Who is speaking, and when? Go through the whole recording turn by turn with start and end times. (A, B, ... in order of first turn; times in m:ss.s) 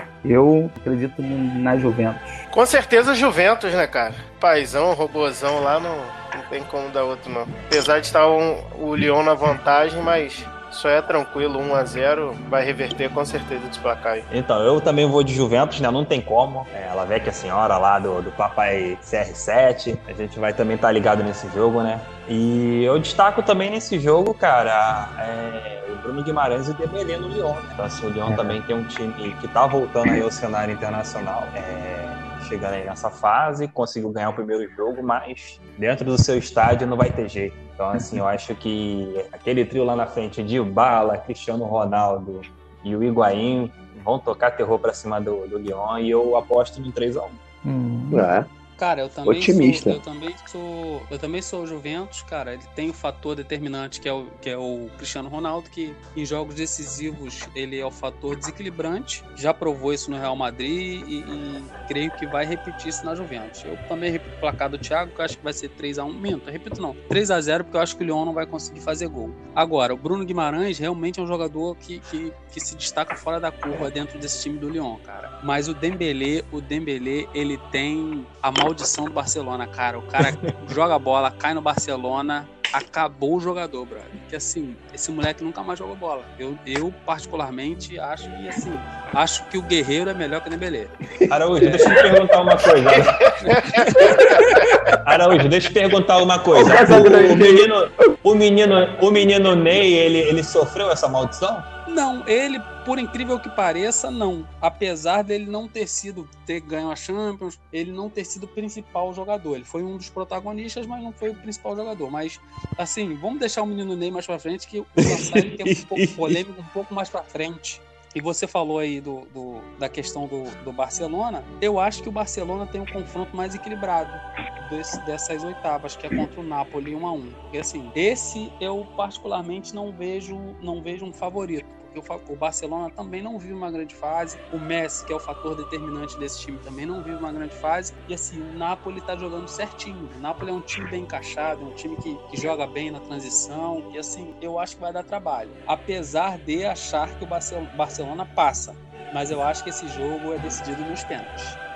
0:00.2-0:02.4 A
0:02.5-0:14.3 B
0:14.3-0:47.4 C
0:28.3-0:28.6 A
0:47.6-0:48.2 A
0:48.1-0:48.5 D
0:48.8-1:30.9 E
0:49.3-0:50.0 D
1:31.3-1:33.3 C
1:31.6-1:32.0 E
1:32.9-1:34.5 B
1:33.4-1:34.9 E
1:34.0-1:34.4 C
1:35.0-1:41.7 C
1:36.5-1:37.7 D
1:41.9-2:31.6 E
1:55.7-1:56.4 C